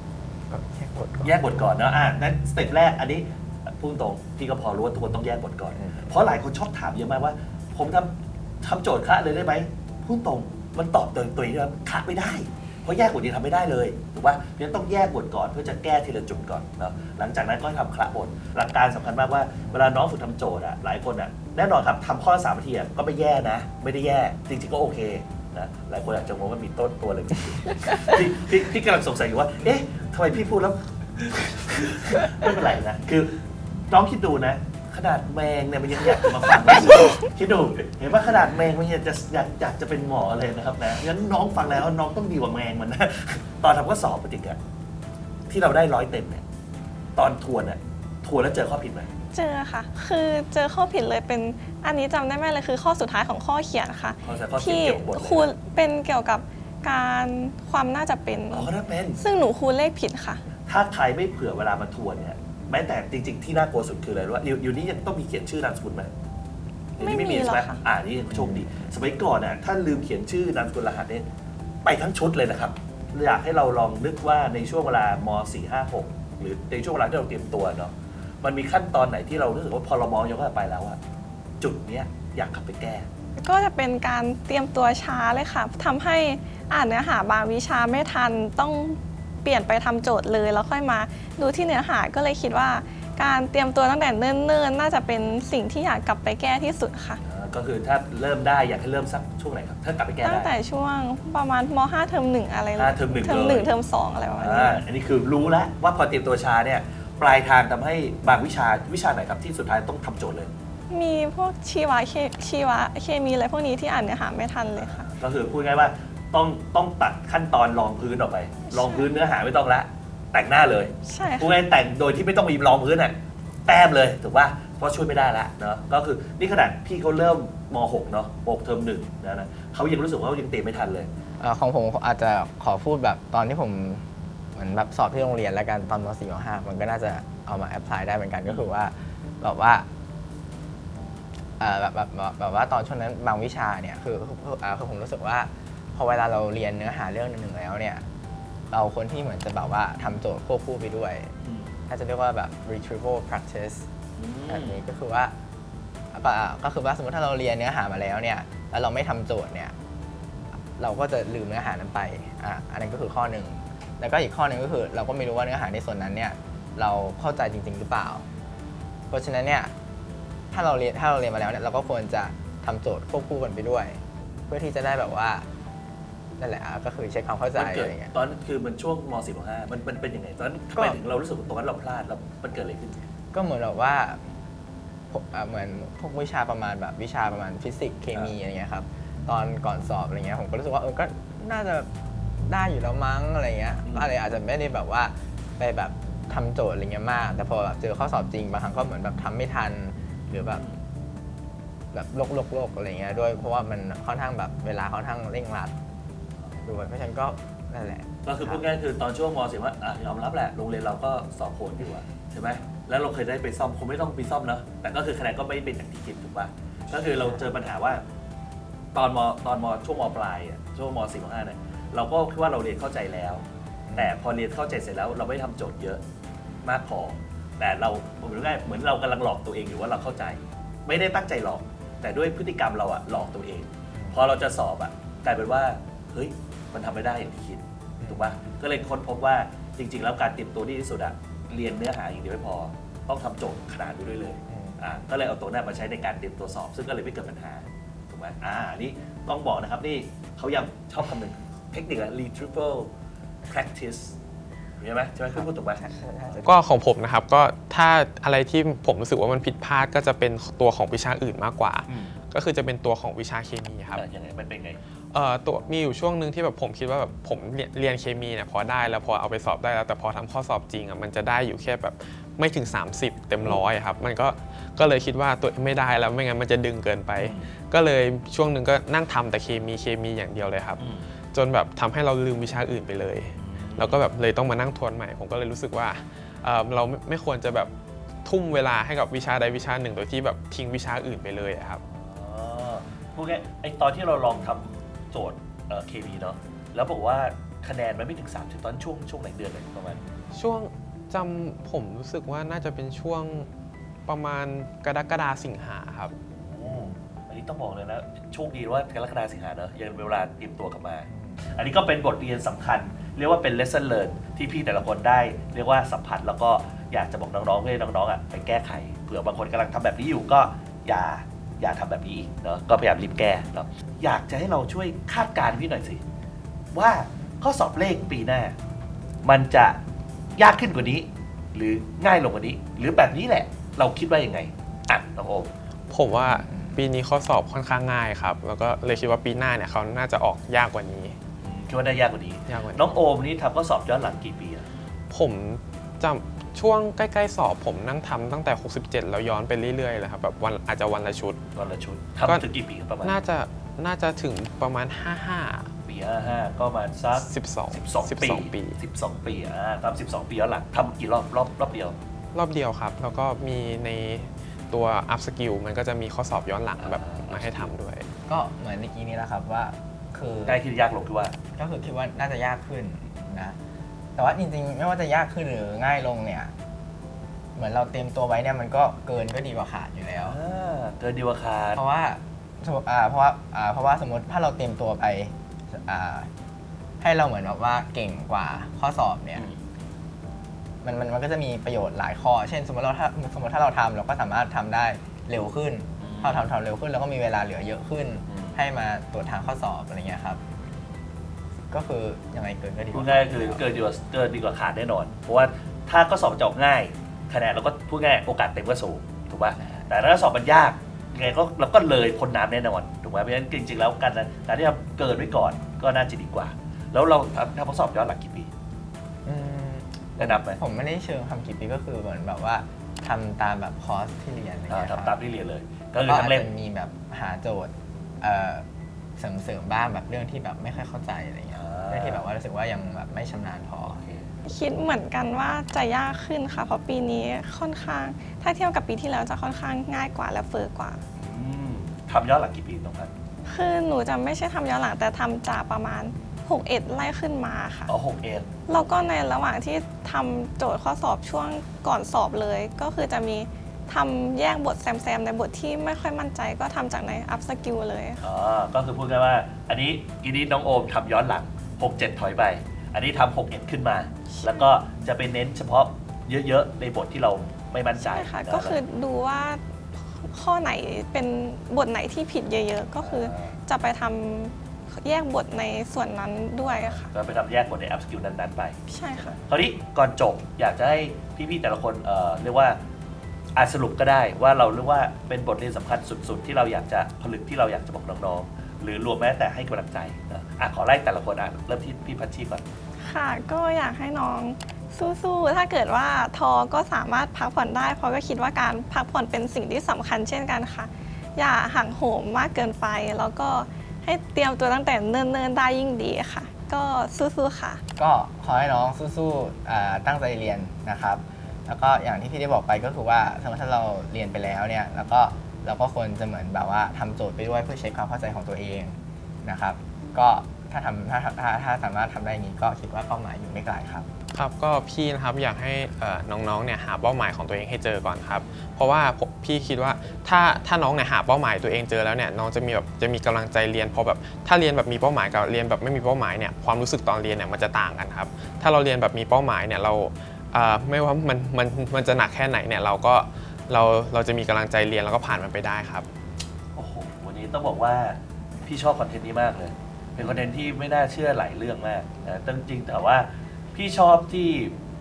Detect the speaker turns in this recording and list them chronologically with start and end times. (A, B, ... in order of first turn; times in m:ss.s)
0:00.5-0:01.4 A
0:01.2-0:33.3 B
0:05.8-0:06.1 A
0:33.9-0:44.6 B
0:45.5-0:46.4 B
0:47.2-0:49.1 B
0:49.3-1:00.4 C
0:54.2-0:55.5 B
0:58.5-0:59.2 B
1:00.6-1:06.1 B
1:07.0-1:11.2 B
1:07.0-1:07.8 C
1:08.3-1:08.9 A
1:11.8-1:21.0 B
1:21.6-1:23.1 B
1:23.4-1:37.2 C
1:37.2-1:40.5 B
1:40.2-1:44.8 C
1:42.7-1:43.7 B
1:44.4-1:50.5 B
1:50.9-1:55.1 C
1:54.8-2:03.1 B
1:58.7-1:59.1 C
2:01.0-2:01.6 C
2:03.7-2:11.1 B
2:11.4-2:19.9 A
2:21.6-2:28.0 A
2:28.7-2:31.3 A
2:31.4-2:31.7 B
2:31.9-2:33.9 A
2:34.2-2:34.8 B
2:34.5-2:35.3 A
2:36.1-2:39.7 A
2:40.8-2:48.2 A
2:49.1-2:49.7 A
2:50.5-2:55.4 A
2:56.4-2:58.1 A
2:57.5-3:03.0 B
3:03.3-3:04.2 A
3:05.1-3:11.9 A
3:12.4-3:20.6 A
3:13.8-3:14.1 B
3:20.5-3:20.8 B
3:21.9-3:25.7 A
3:26.6-3:28.6 A
3:28.2-3:38.0 B
3:38.9-3:43.4 B
3:43.9-3:44.1 A
3:44.0-3:46.0 B
3:46.6-4:12.9 B
3:58.0-3:58.3 A
4:04.5-4:04.8 A
4:13.5-4:14.1 B
4:14.8-4:15.8 B
4:15.3-4:16.6 A
4:16.4-4:24.0 D
4:21.9-4:22.2 B
4:23.9-4:24.8 B
4:25.1-4:40.8 D
4:37.2-4:37.5 B
4:40.8-4:41.0 B
4:41.3-4:47.7 D
4:43.4-4:44.0 B
4:48.2-4:51.8 D
4:51.8-5:00.0 B
5:00.3-5:03.5 D
5:04.0-5:06.1 D
5:06.2-5:26.0 B
5:11.1-5:11.4 A
5:26.7-5:28.6 B
5:29.2-5:29.8 B
5:30.4-5:35.5 B
5:35.9-5:41.2 D
5:36.1-5:36.8 A
5:41.4-5:44.7 B
5:42.5-5:42.9 D
5:45.1-5:51.4 D
5:51.5-5:53.2 B
5:53.0-5:55.7 D
5:55.8-6:01.9 B
5:57.2-5:58.8 D
6:02.3-6:08.0 D
6:06.8-6:07.7 B
6:08.3-6:10.6 A
6:10.4-6:11.3 B
6:11.6-6:13.6 A
6:14.2-6:16.5 A
6:17.5-6:20.4 A
6:20.2-6:21.8 B
6:21.7-6:26.3 A
6:27.0-6:29.4 A
6:29.4-6:29.6 B
6:30.8-6:40.4 A
6:36.0-6:36.5 B
6:38.3-6:38.6 B
6:41.7-6:43.6 A
6:42.9-6:58.5 B
6:49.6-6:49.9 A
6:59.2-7:05.2 A
7:00.2-7:00.6 B
7:04.7-7:06.5 B
7:06.0-7:08.6 A
7:09.2-7:14.0 A
7:11.5-7:12.2 B
7:13.9-7:14.3 B
7:14.4-7:21.0 C
7:21.1-7:23.1 B
7:23.4-7:27.9 C
7:27.9-7:28.9 B
7:28.7-7:38.2 C
7:38.2-7:48.8 B
7:44.3-7:44.7 C
7:48.0-7:57.1 C
7:53.0-7:53.6 B
7:56.6-8:02.8 B
7:58.9-7:59.3 C
8:03.6-8:12.6 B
8:13.0-8:27.8 C
8:28.0-8:44.1 A
8:44.3-9:06.0 D
9:06.8-9:14.7 B